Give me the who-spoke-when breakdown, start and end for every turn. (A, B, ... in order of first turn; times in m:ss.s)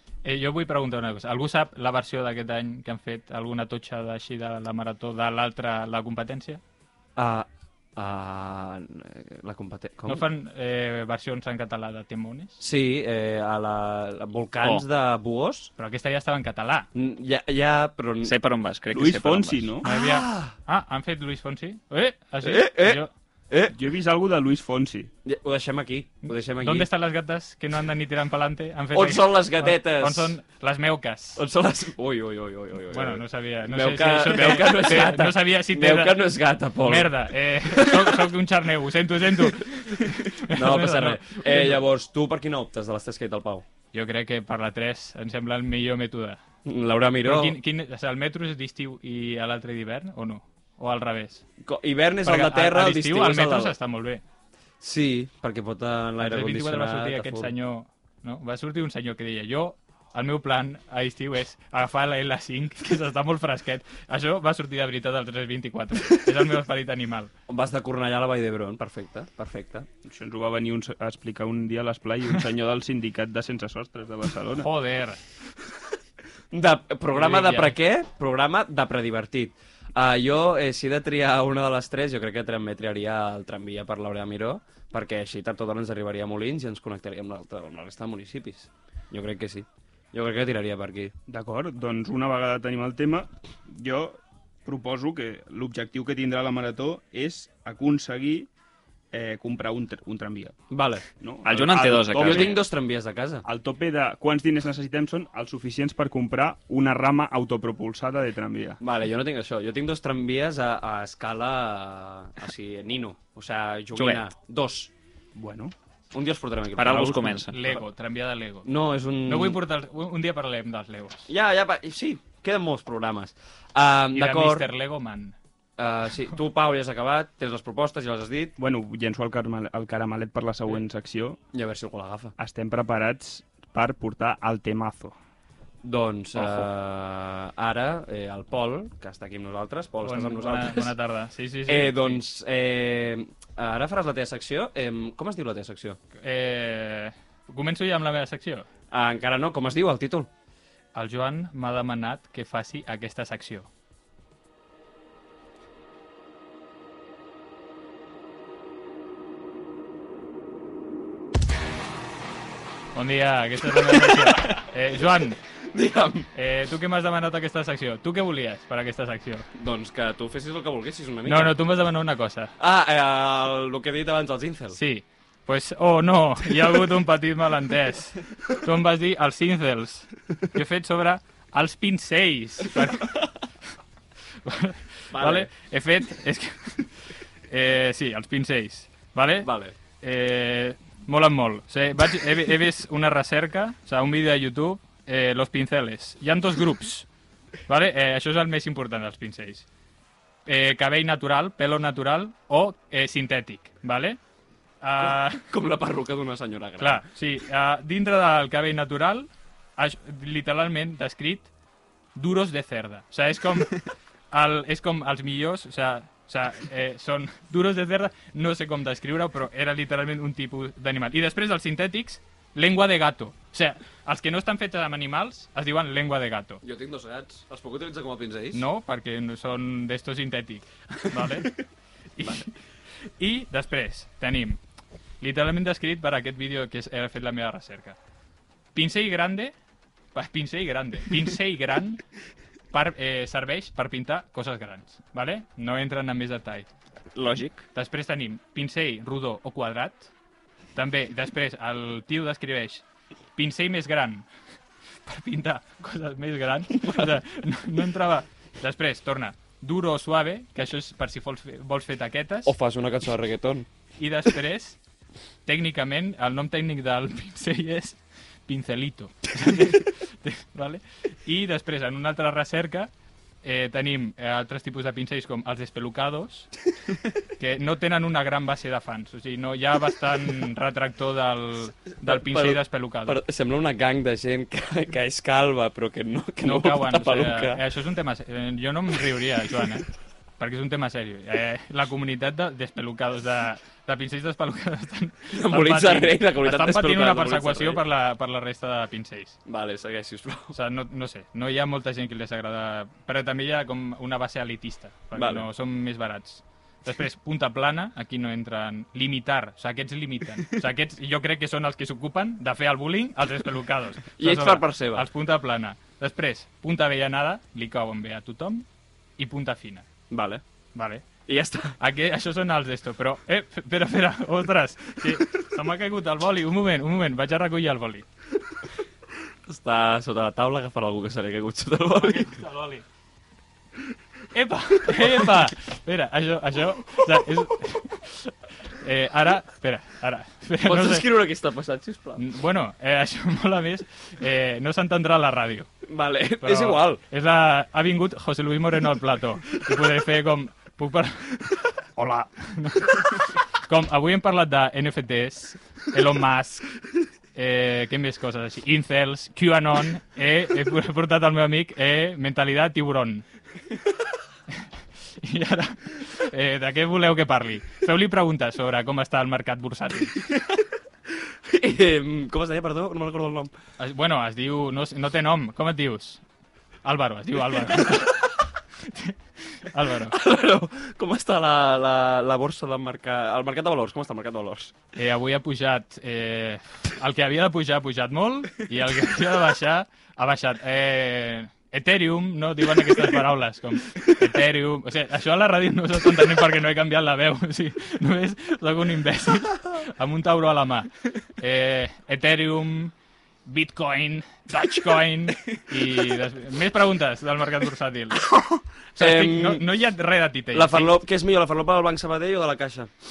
0:00.2-0:06.6 A
0:07.2-0:10.2 B
0:10.0-0:12.6 A
0:12.6-0:15.7 B
0:15.8-0:16.9 A
0:16.9-0:18.3 B
0:18.2-0:19.7 C
0:18.9-0:19.8 D
0:19.8-0:20.5 B
0:19.8-0:23.1 A
0:22.4-0:23.8 B
0:23.7-0:25.1 D
0:25.2-0:26.9 B
0:26.3-0:31.4 A
0:28.9-0:30.4 B
0:31.4-0:37.1 B
0:32.9-0:36.2 A
0:36.8-0:41.8 A
0:37.6-0:38.3 B
0:39.6-0:43.6 B
0:43.9-0:46.4 A
0:46.6-0:47.6 B
0:47.2-0:51.4 A
0:51.6-0:53.7 B
0:52.2-0:54.2 A
0:54.8-0:57.5 B
0:56.2-1:07.3 A
1:07.5-1:09.9 B
1:10.0-1:14.7 D
1:14.5-1:15.2 A
1:16.5-1:31.1 B
1:17.1-1:17.7 A
1:31.3-1:38.5 D
1:39.1-1:40.6 D
1:40.7-1:41.1 B
1:41.2-1:42.6 D
1:41.4-1:42.6 C
1:42.2-1:43.4 B
1:43.4-1:48.8 D
1:48.8-1:54.9 B
1:53.9-1:54.2 C
1:55.3-1:55.7 D
1:56.1-1:57.5 B
1:56.8-1:57.6 C
1:57.5-1:58.7 A
1:58.6-1:59.6 B
1:59.2-2:01.3 A
2:01.3-2:04.7 B
2:04.1-2:05.3 A
2:05.8-2:08.5 B
2:08.6-2:11.4 D
2:11.5-2:12.3 B
2:12.4-2:15.2 D
2:15.8-2:20.9 B
2:20.0-2:22.2 A
2:21.7-2:26.0 B
2:26.2-2:28.7 A
2:28.9-2:30.3 B
2:30.9-2:33.7 A
2:42.9-2:45.4 A
2:44.2-2:44.5 B
2:45.7-2:46.3 B
2:46.3-2:49.5 A
2:49.5-2:51.6 B
2:51.2-2:52.5 A
2:52.6-2:54.8 B
2:54.7-3:03.3 A
3:04.4-3:06.9 A
3:05.1-3:05.5 B
3:07.5-3:09.5 A
3:09.4-3:09.7 B
3:10.0-3:17.0 A
3:17.7-3:19.6 A
3:20.4-3:24.2 A
3:24.8-3:25.5 A
3:25.0-3:27.0 B
3:26.8-3:31.5 A
3:32.1-3:46.6 A
3:46.6-3:48.6 B
3:48.5-3:51.5 A
3:52.2-3:52.5 A
3:53.2-3:54.6 A
3:55.2-3:58.0 A
3:58.7-3:59.5 A
4:00.1-4:02.0 A
4:02.7-4:06.7 A
4:07.1-4:07.6 C
4:07.7-4:10.1 A
4:10.8-4:12.8 A
4:13.4-4:14.3 A
4:15.0-4:22.5 A
4:22.4-4:23.6 B
4:24.0-4:24.8 A
4:25.4-4:32.9 A
4:33.4-4:36.5 A
4:37.4-4:43.2 A
4:42.0-4:47.6 B
4:46.4-4:59.4 A
4:55.3-4:57.8 B
4:59.4-5:00.5 B
5:00.5-5:18.6 A
5:05.1-5:05.5 B
5:14.2-5:15.0 B
5:19.2-5:19.9 A
5:20.1-5:20.4 B
5:20.7-5:21.1 A
5:21.2-5:21.8 B
5:21.8-5:28.0 A
5:29.5-5:32.3 B
5:32.0-5:32.8 A
5:34.3-5:41.1 A
5:40.6-5:42.2 B
5:42.2-5:45.7 A
5:45.9-5:47.0 B
5:46.4-5:51.4 A
5:52.0-5:56.7 A
5:57.3-6:03.2 A
6:05.2-6:10.2 A
6:11.2-6:13.5 B
6:13.8-6:16.2 A
6:16.8-6:18.2 A
6:18.8-6:20.1 A
6:20.1-6:24.7 B
6:25.0-6:42.9 A
6:43.4-6:48.4 A
6:48.9-6:51.0 A
6:49.0-6:49.6 B
6:50.5-6:52.9 B